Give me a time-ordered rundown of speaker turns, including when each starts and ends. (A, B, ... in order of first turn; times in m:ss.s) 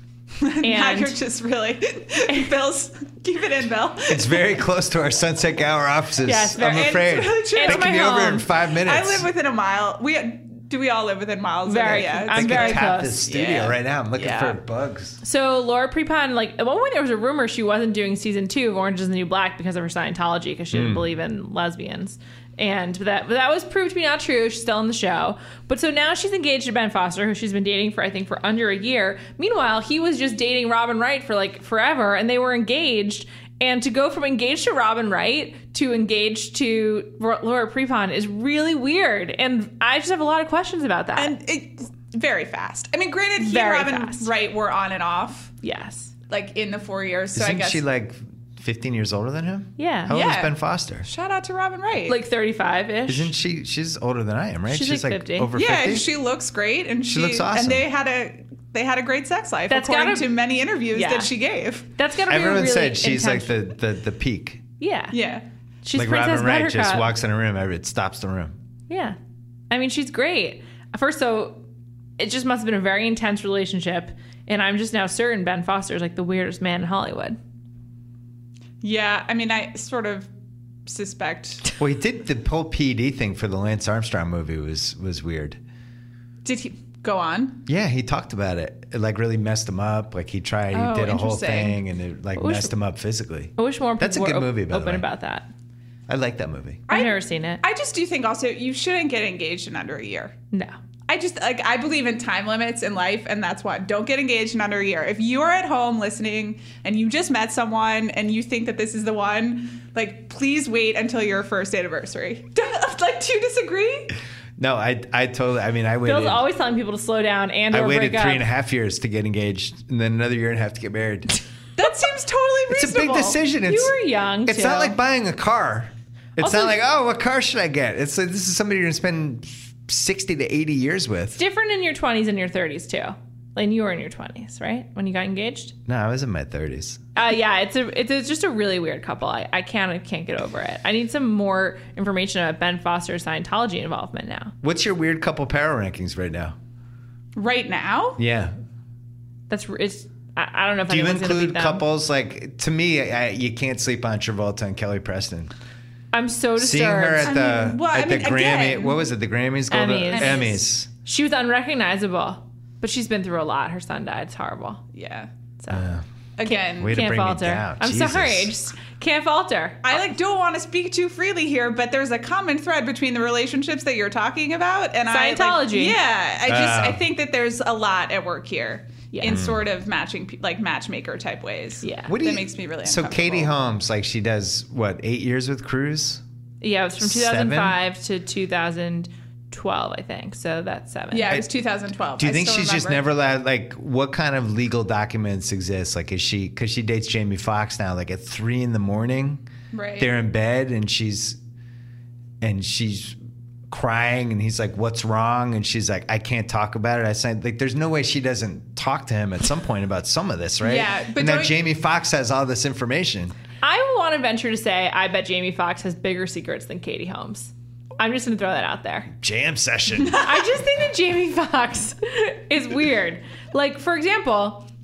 0:00.4-0:04.6 A
0:00.6-0:01.2 B
0:04.1-0:09.3 C
0:06.2-0:08.5 B
0:06.6-0:14.6 A
0:11.6-0:13.2 B
0:12.3-0:15.2 C
0:15.2-0:41.3 B
0:20.7-0:21.1 C
0:41.2-0:45.6 A
0:43.4-0:44.3 B
0:45.6-0:46.1 B
0:46.3-0:47.8 A
0:47.4-0:51.1 C
0:49.8-0:50.1 B
0:50.1-0:52.2 A
0:52.1-0:53.3 B
0:53.1-0:56.1 C
0:54.7-0:55.5 B
0:55.6-1:01.9 A
0:57.1-0:57.9 C
0:59.7-1:00.3 B
1:00.9-1:01.3 B
1:02.0-1:03.6 B
1:02.3-1:04.6 C
1:04.8-1:05.2 B
1:05.1-1:05.4 A
1:05.8-1:07.1 B
1:06.0-1:08.6 C
1:08.9-1:09.2 B
1:09.7-1:11.6 B
1:12.2-1:17.4 B
1:18.8-1:20.3 A
1:20.9-1:21.8 A
1:21.8-1:25.6 C
1:26.4-1:27.6 A
1:27.7-1:35.1 C
1:30.7-1:31.8 A
1:32.4-1:32.7 B
1:33.6-1:35.5 B
1:36.1-1:36.8 C
1:36.9-1:40.4 A
1:36.9-1:37.6 B
1:41.1-1:54.1 A
1:54.6-1:56.4 C
1:56.0-1:58.5 B
1:57.7-2:01.4 C
2:01.8-2:03.4 A
2:02.7-2:11.4 C
2:03.7-2:05.0 B
2:06.4-2:06.8 B
2:11.4-2:15.8 B
2:15.9-2:17.0 C
2:17.2-2:24.6 B
2:24.6-2:26.6 C
2:27.4-2:28.2 A
2:28.2-2:28.5 C
2:29.5-2:31.8 B
2:30.9-2:35.5 C
2:36.1-2:37.3 B
2:36.6-2:40.9 C
2:37.2-2:39.0 A
2:39.7-2:40.5 B
2:40.1-2:40.6 A
2:41.0-2:44.8 B
2:44.9-2:45.3 A
2:45.6-2:45.9 B
2:45.7-2:46.0 C
2:46.4-2:47.0 A
2:46.5-2:50.1 B
2:46.8-2:48.5 C
2:49.8-3:03.5 A
2:55.1-2:56.0 B
2:56.5-2:57.0 C
2:59.1-2:59.4 B
2:59.3-2:59.6 C
3:01.8-3:02.1 B
3:02.1-3:06.2 C
3:06.6-3:11.4 B
3:07.0-3:07.8 C
3:11.1-3:13.0 A
3:12.2-3:19.4 C
3:19.7-3:20.1 A
3:20.0-3:21.4 C
3:22.4-3:23.2 C
3:23.7-3:33.3 C
3:30.6-3:31.6 A
3:33.6-3:39.1 B
3:39.2-3:40.2 C
3:40.0-3:40.6 A
3:40.2-3:44.7 B